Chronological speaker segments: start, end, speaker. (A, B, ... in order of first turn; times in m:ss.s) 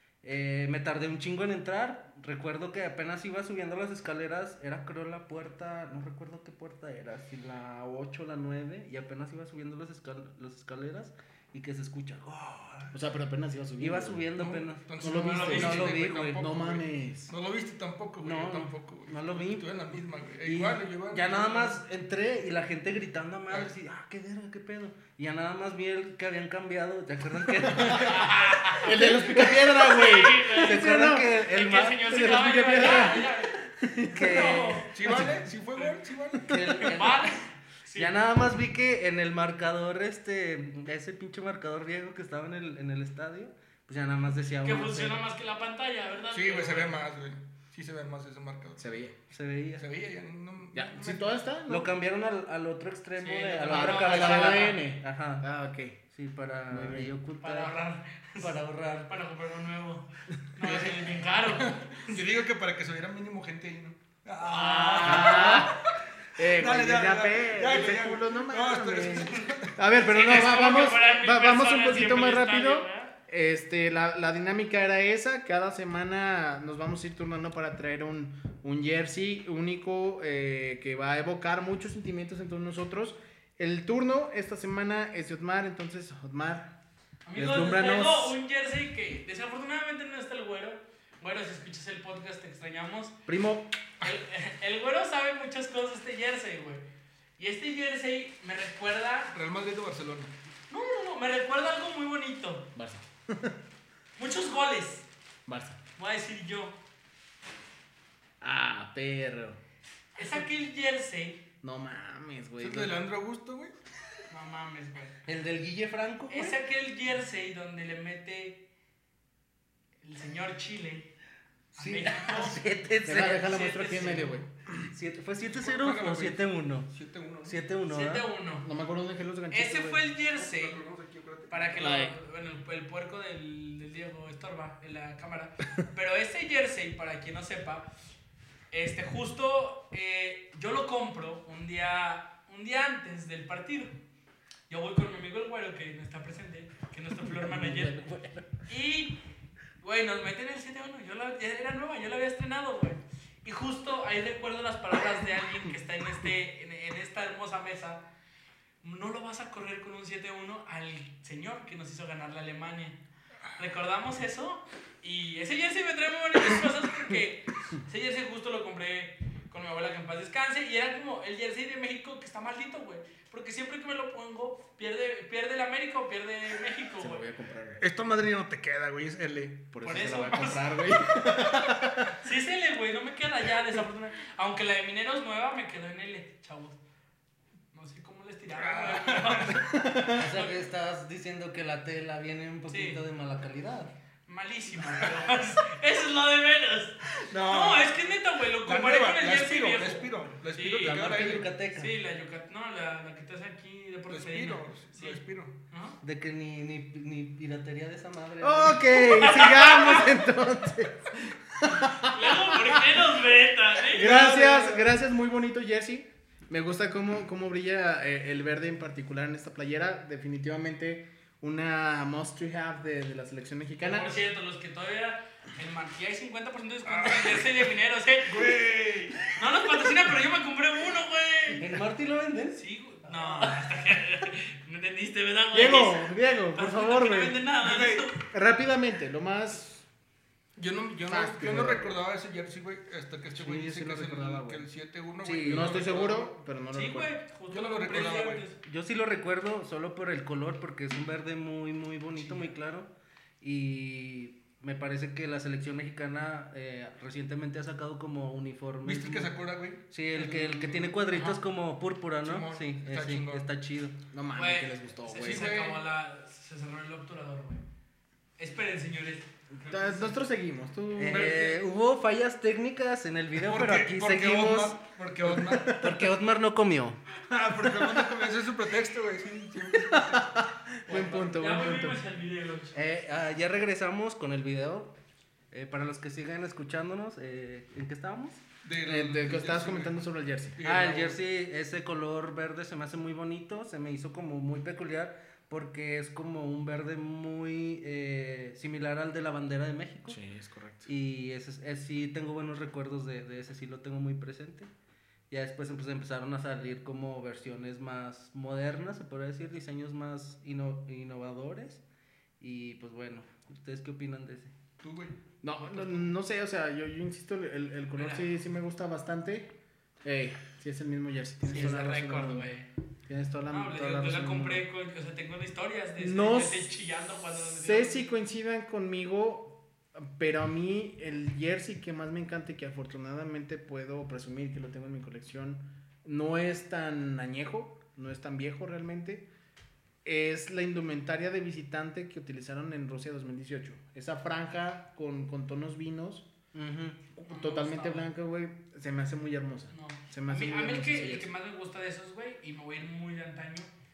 0:00.2-0:12.9 A
0:12.9-0:17.3 B
0:13.8-0:16.5 A
0:14.8-0:21.8 C
0:15.2-0:15.9 D
0:18.2-0:19.7 A
0:20.4-0:29.6 A
0:27.9-0:29.0 D
0:27.9-0:28.2 B
0:28.8-0:31.3 B
0:29.6-0:33.5 D
0:30.6-0:33.1 A
0:32.0-0:34.4 B
0:34.1-0:35.2 A
0:34.2-0:35.2 D
0:34.9-0:36.6 C
0:35.0-0:35.3 B
0:36.5-0:37.3 A
0:36.5-0:36.8 B
0:36.9-0:38.1 D
0:38.0-0:45.2 A
0:44.6-0:47.0 D
0:46.3-0:48.9 C
0:48.8-0:49.1 B
0:49.3-0:49.8 A
0:49.8-0:51.4 C
0:50.7-0:51.9 B
0:51.7-0:55.4 A
0:53.2-0:54.8 D
0:53.7-0:56.0 B
0:56.1-0:57.7 A
0:56.7-0:57.1 B
0:57.4-0:58.5 D
0:58.4-0:59.1 A
0:59.1-1:02.2 D
1:00.6-1:05.7 C
1:04.4-1:05.7 D
1:05.0-1:05.8 B
1:06.4-1:26.8 B
1:06.4-1:09.8 C
1:10.0-1:13.1 D
1:27.2-1:33.2 D
1:27.3-1:28.4 B
1:33.3-1:33.8 B
1:34.0-1:36.8 D
1:37.4-1:39.3 D
1:39.3-1:40.3 C
1:40.7-1:42.7 D
1:42.7-1:43.6 B
1:44.2-1:45.0 D
1:45.5-1:45.8 B
1:46.0-1:46.7 D
1:48.4-1:49.6 B
1:50.2-1:51.4 D
1:51.6-1:53.0 B
1:52.6-1:53.7 C
1:54.3-1:55.1 D
1:55.2-1:56.6 A
1:56.3-1:58.6 D
2:00.0-2:01.1 D
2:01.7-2:03.7 A
2:01.8-2:02.6 D
2:03.0-2:04.8 B
2:03.2-2:04.4 D
2:04.9-2:06.9 A
2:05.5-2:07.6 C
2:07.4-2:08.3 A
2:07.9-2:08.7 D
2:08.6-2:10.0 B
2:09.5-2:10.8 D
2:10.3-2:11.9 C
2:11.5-2:17.9 D
2:11.8-2:12.1 B
2:18.7-2:23.9 D
2:24.7-2:28.0 D
2:27.3-2:28.6 A
2:28.7-2:29.2 D
2:29.8-2:38.0 D
2:38.8-2:43.0 D
2:43.6-2:57.2 D
2:57.0-2:57.8 B
2:57.8-3:00.6 C
2:59.7-3:02.1 B
2:59.8-3:00.6 D
3:02.2-3:06.8 D
3:07.7-3:10.6 D
3:08.5-3:09.6 C
3:09.6-3:10.3 B
3:10.2-3:13.9 A
3:12.7-3:13.0 D
3:14.3-3:25.2 D
3:14.9-3:15.2 C
3:17.2-3:18.0 C
3:18.6-3:21.5 C
3:20.8-3:21.9 A
3:24.1-3:25.5 C
3:25.7-3:26.0 D
3:26.0-3:29.0 A
3:28.4-3:33.0 B
3:29.1-3:30.1 D
3:31.7-3:34.1 D
3:33.9-3:44.2 B
3:33.9-3:34.9 C
3:43.8-3:48.6 D
3:46.8-3:47.6 C
3:48.2-3:49.3 C
3:49.3-3:51.7 D
3:51.6-3:53.6 A
3:52.6-3:58.2 D
3:55.5-3:57.4 B
3:57.6-3:58.1 C
3:58.3-3:59.8 B
4:00.6-4:06.3 C
4:01.1-4:02.0 B
4:03.3-4:04.6 B
4:05.2-4:05.8 A
4:05.4-4:07.1 B
4:06.7-4:08.6 D
4:07.5-4:08.4 C
4:08.6-4:12.9 A
4:13.4-4:19.3 A
4:18.8-4:21.4 C
4:19.9-4:24.0 A
4:22.2-4:23.4 C
4:24.1-4:25.5 B
4:24.4-4:27.6 D
4:25.2-4:25.8 C
4:28.4-4:30.1 D
4:29.6-4:31.5 B
4:30.9-4:34.8 A
4:33.4-4:35.8 C
4:35.6-4:37.0 A
4:37.3-4:40.4 C
4:39.7-4:42.0 B
4:40.9-4:42.8 D
4:42.7-4:44.9 A
4:45.5-4:48.4 A
4:48.6-4:51.2 C
4:48.8-4:50.6 B
4:50.6-5:00.2 A
5:00.1-5:00.9 B
5:00.8-5:04.7 A
5:05.3-5:11.8 A
5:12.4-5:14.5 A
5:14.8-5:15.2 C
5:15.4-5:19.5 B
5:18.0-5:18.2 D
5:20.0-5:22.5 B
5:21.5-5:22.7 D
5:23.1-5:24.6 B
5:23.5-5:28.1 D
5:26.0-5:26.7 B
5:27.4-5:39.3 B
5:40.0-5:46.3 B
5:46.5-5:47.0 A
5:47.1-5:51.3 B
5:47.3-5:48.0 D
5:49.7-5:53.7 D